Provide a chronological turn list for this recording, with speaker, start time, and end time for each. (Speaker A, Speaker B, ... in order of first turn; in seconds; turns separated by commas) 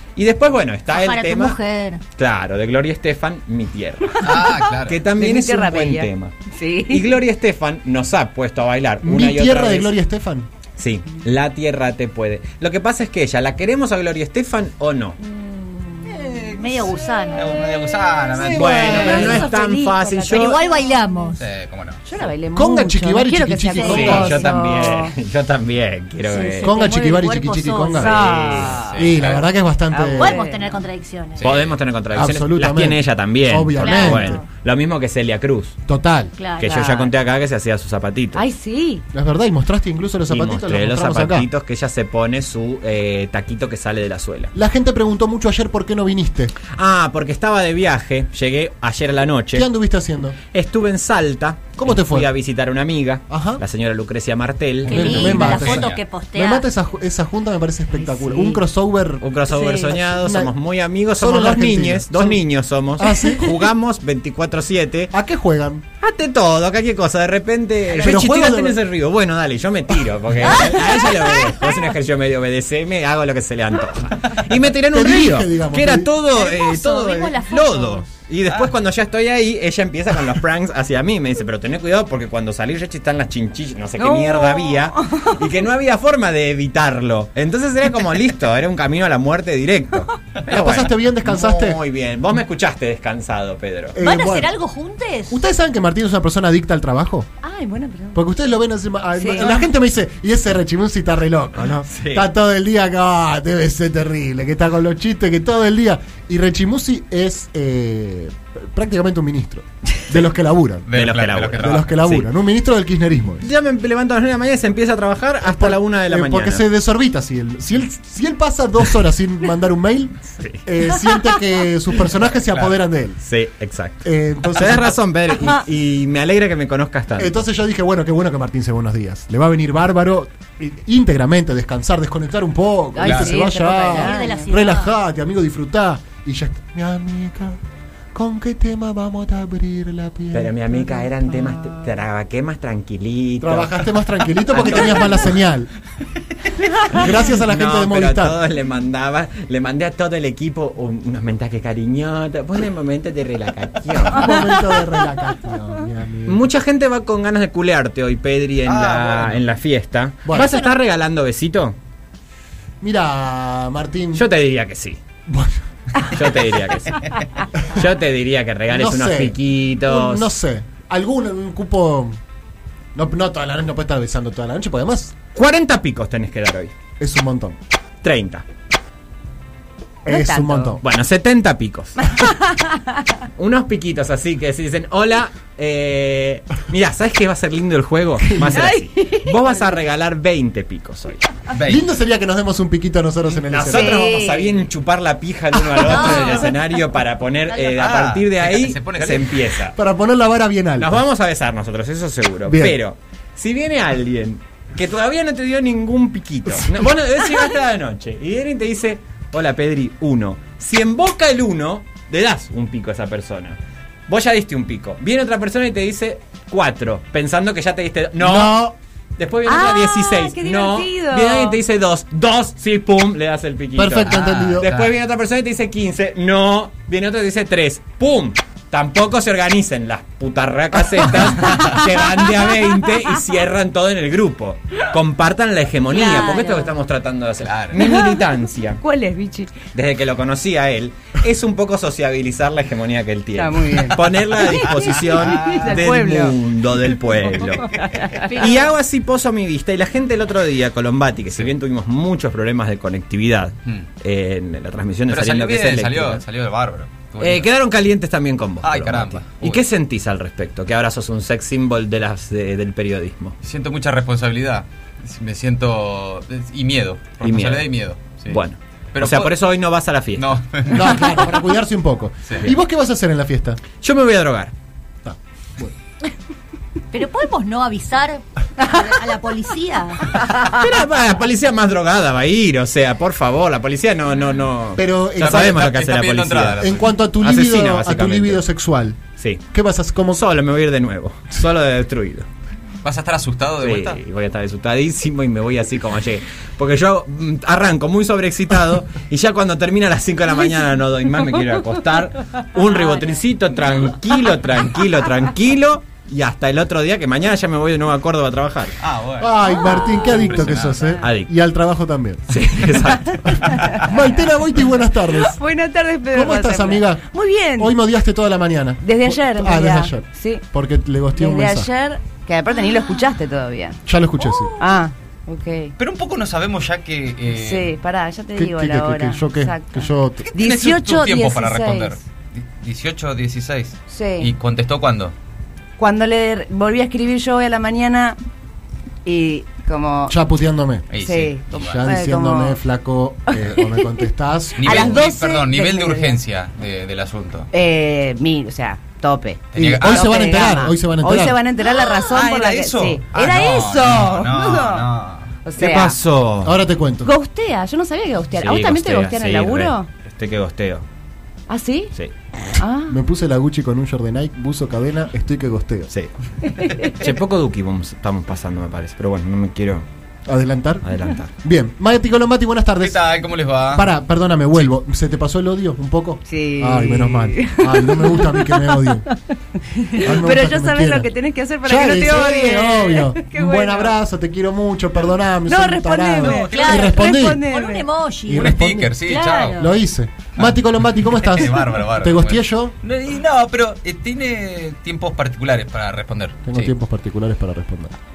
Speaker A: 0.1-1.6, Speaker B: 0.9-2.0, Speaker A: 2.2-6.3, Speaker C: 4.2-5.0, Speaker D: 4.3-7.1, Speaker A: 6.9-9.9, Speaker E: 9.0-10.5, Speaker A: 10.8-15.2, Speaker B: 15.2-17.6, Speaker C: 16.1-19.5, Speaker A: 18.4-20.6, Speaker D: 18.6-20.6, Speaker B: 18.9-19.4, Speaker B: 20.3-21.5, Speaker C: 21.3-22.0, Speaker D: 22.0-25.1, Speaker E: 22.5-24.6, Speaker B: 23.7-24.6, Speaker A: 23.9-26.7, Speaker B: 26.2-28.7, Speaker E: 26.6-28.3, Speaker D: 27.9-29.0, Speaker A: 27.9-28.8, Speaker C: 28.7-29.4, Speaker E: 28.9-30.4, Speaker D: 29.9-30.8, Speaker B: 30.2-31.4, Speaker C: 31.4-31.8, Speaker A: 31.4-35.8, Speaker E: 32.1-34.4, Speaker B: 33.8-34.5, Speaker E: 35.9-36.3, Speaker B: 36.4-37.0, Speaker A: 36.6-38.4, Speaker D: 36.6-37.1, Speaker D: 38.3-39.0, Speaker E: 39.1-41.5, Speaker A: 40.3-44.5, Speaker E: 44.5-46.5, Speaker A: 46.7-49.7, Speaker E: 49.5-50.4, Speaker A: 50.5-55.6, Speaker E: 51.8-52.3, Speaker E: 53.3-53.6, Speaker E: 54.8-59.2, Speaker B: 54.9-56.6, Speaker C: 55.4-56.0, Speaker D: 58.0-58.6, Speaker A: 59.2-65.1, Speaker B: 59.5-60.0, Speaker E: 60.0-60.5, Speaker E: 61.1-62.4, Speaker E: 63.0-63.5, Speaker E: 65.1-65.8, Speaker A: 66.0-94.0, Speaker E: 68.0-68.8, Speaker B: 70.7-71.5, Speaker E: 74.9-76.1, Speaker B: 76.3-78.0, Speaker D: 84.0-85.4, Speaker E: 90.5-91.8, Speaker E: 93.9-94.5, Speaker B: 94.0-95.4, Speaker E: 95.3-97.3, Speaker D: 97.4-98.2, Speaker E: 98.1-110.8, Speaker D: 99.2-99.5, Speaker A: 101.8-102.3, Speaker C: 110.9-111.9, Speaker A: 110.9-112.3, Speaker E: 111.5-113.5, Speaker A: 113.4-116.6, Speaker E: 115.4-123.2, Speaker A: 123.2-127.4, Speaker E: 124.0-125.0, Speaker E: 127.2-137.6, Speaker D: 132.9-134.5, Speaker C: 133.0-133.3, Speaker B: 133.9-134.9, Speaker E: 138.1-140.8, Speaker A: 140.3-143.8, Speaker E: 143.4-145.7, Speaker A: 144.5-145.4, Speaker A: 146.8-154.6, Speaker E: 146.9-148.4, Speaker E: 154.1-156.4, Speaker D: 154.2-154.7, Speaker A: 156.2-161.8, Speaker C: 158.7-159.4, Speaker E: 160.2-160.5, Speaker B: 160.3-160.6, Speaker E: 162.8-164.3, Speaker A: 164.1-165.0, Speaker E: 165.3-165.6, Speaker A: 166.1-167.1, Speaker A: 167.6-170.3, Speaker E: 168.7-172.2, Speaker E: 172.9-175.2, Speaker A: 175.3-176.7, Speaker E: 177.0-177.6, Speaker A: 178.0-178.4, Speaker E: 180.0-180.8, Speaker D: 180.1-180.8, Speaker A: 180.8-182.2, Speaker D: 182.0-182.9, Speaker A: 183.3-191.3, Speaker E: 188.2-188.6, Speaker D: 188.5-189.6, Speaker C: 191.5-191.8, Speaker E: 191.7-194.0, Speaker A: 193.5-199.7, Speaker D: 193.7-194.6, Speaker E: 195.6-196.3, Speaker B: 195.9-196.5, Speaker C: 197.7-199.4, Speaker E: 199.7-201.0, Speaker A: 200.8-213.6, Speaker E: 202.5-202.8, Speaker A: 214.1-238.8, Speaker E: 218.2-218.8, Speaker D: 219.4-221.6, Speaker E: 223.8-224.7, Speaker C: 224.0-224.9, Speaker C: 231.5-231.7, Speaker D: 235.9-236.7, Speaker B: 236.0-236.6, Speaker C: 237.4-237.8, Speaker D: 237.8-238.2, Speaker D: 238.8-239.5, Speaker A: 239.7-247.7, Speaker D: 243.3-246.3, Speaker C: 244.9-245.8, Speaker D: 247.6-248.4, Speaker C: 247.7-248.0, Speaker A: 248.3-256.2, Speaker C: 255.1-257.5, Speaker A: 257.2-263.3, Speaker C: 258.6-259.6, Speaker C: 263.4-268.4, Speaker A: 267.2-270.4, Speaker C: 268.9-269.3, Speaker C: 270.1-271.1, Speaker E: 270.7-273.6, Speaker A: 273.8-274.5, Speaker E: 275.0-275.7, Speaker B: 276.9-280.1, Speaker A: 280.4-288.4, Speaker E: 284.8-285.6, Speaker C: 285.2-286.9, Speaker E: 286.6-289.0, Speaker A: 289.2-289.4, Speaker E: 289.5-290.2, Speaker A: 290.1-292.3, Speaker C: 292.8-294.0, Speaker A: 293.6-308.8, Speaker C: 308.8-309.3, Speaker E: 309.2-312.4, Speaker D: 309.7-310.3, Speaker C: 310.0-311.0, Speaker A: 311.0-311.3, Speaker A: 312.3-313.5, Speaker E: 313.7-315.4, Speaker D: 315.1-317.8, Speaker E: 316.1-317.0, Speaker E: 317.6-321.7, Speaker D: 318.8-320.4, Speaker D: 321.1-323.8, Speaker E: 323.9-324.5, Speaker D: 324.6-325.7, Speaker C: 325.8-327.7, Speaker D: 327.3-332.0, Speaker E: 328.3-330.3, Speaker C: 330.3-335.1, Speaker D: 333.9-334.3, Speaker D: 335.8-338.2, Speaker D: 339.1-340.1, Speaker E: 340.1-340.9, Speaker C: 340.9-341.8, Speaker D: 341.0-342.6, Speaker E: 341.6-345.0, Speaker D: 343.5-344.0, Speaker C: 344.6-347.5, Speaker D: 344.6-346.2, Speaker D: 347.5-354.9, Speaker C: 349.5-350.3, Speaker E: 349.5-351.4, Speaker C: 352.0-355.3, Speaker D: 355.4-355.9, Speaker A: 355.6-356.6, Speaker E: 356.4-357.1, Speaker D: 357.0-359.9, Speaker A: 358.4-360.8, Speaker D: 361.5-361.9, Speaker D: 362.5-362.9, Speaker E: 362.9-365.9, Speaker D: 366.4-366.9, Speaker A: 366.9-369.8, Speaker E: 370.3-370.9, Speaker A: 370.8-371.3, Speaker E: 371.4-373.0, Speaker C: 372.8-373.9, Speaker E: 373.7-379.0, Speaker D: 376.3-379.1, Speaker D: 379.6-383.9, Speaker E: 380.0-381.1, Speaker E: 381.6-387.4, Speaker D: 385.5-387.9, Speaker C: 386.2-386.9, Speaker B: 386.5-389.7, Speaker E: 388.3-389.0, Speaker C: 388.3-389.6, Speaker E: 389.6-392.7, Speaker C: 390.4-396.7, Speaker E: 396.4-397.9